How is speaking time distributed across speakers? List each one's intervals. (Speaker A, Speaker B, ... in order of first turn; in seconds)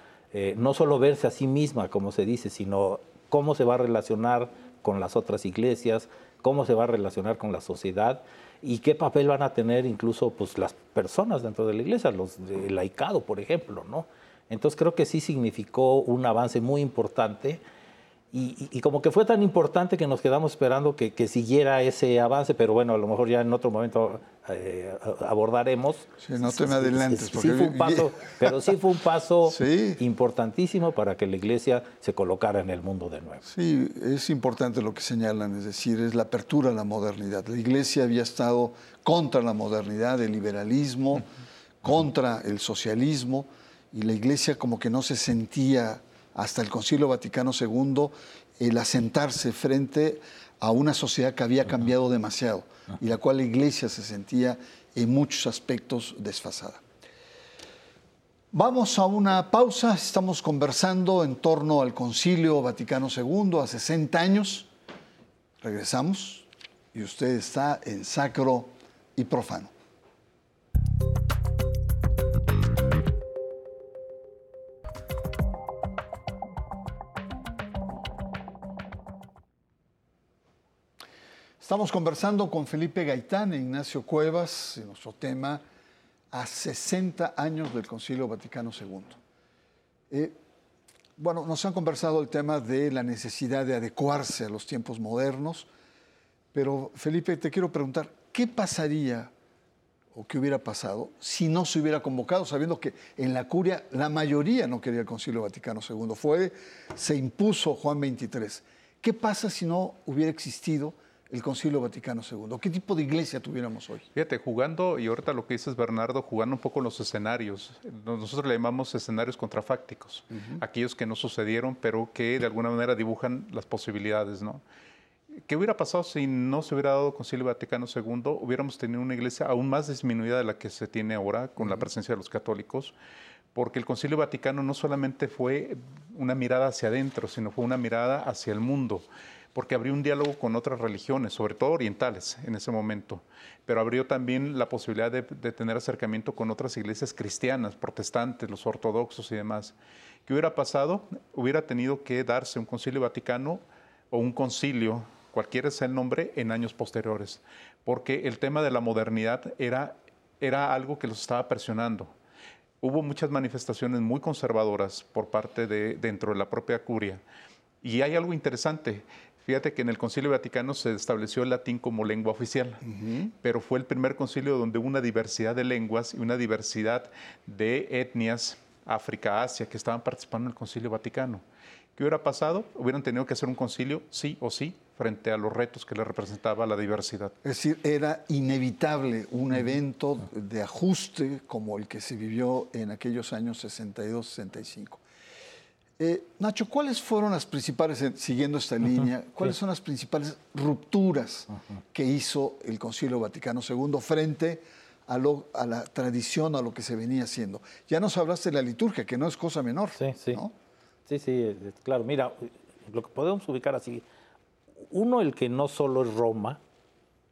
Speaker A: 0.3-17.6, 18.3-33.5, 210.0-210.4, 211.1-214.0, 214.8-216.6
Speaker B: 26.2-28.7, 29.5-30.0, 33.5-41.3, 41.8-56.8, 58.5-64.7, 65.6-69.7, 81.6-85.6, 86.3-89.2, 90.1-90.4, 91.2-95.7, 96.5-99.3, 100.1-114.1, 120.3-120.6, 172.8-173.3, 187.4-195.0, 196.0-210.5
Speaker C: 114.2-124.6, 125.5-132.9, 133.6-149.8, 150.3-162.1, 162.8-167.2, 167.8-172.8, 173.4-181.4, 182.0-187.3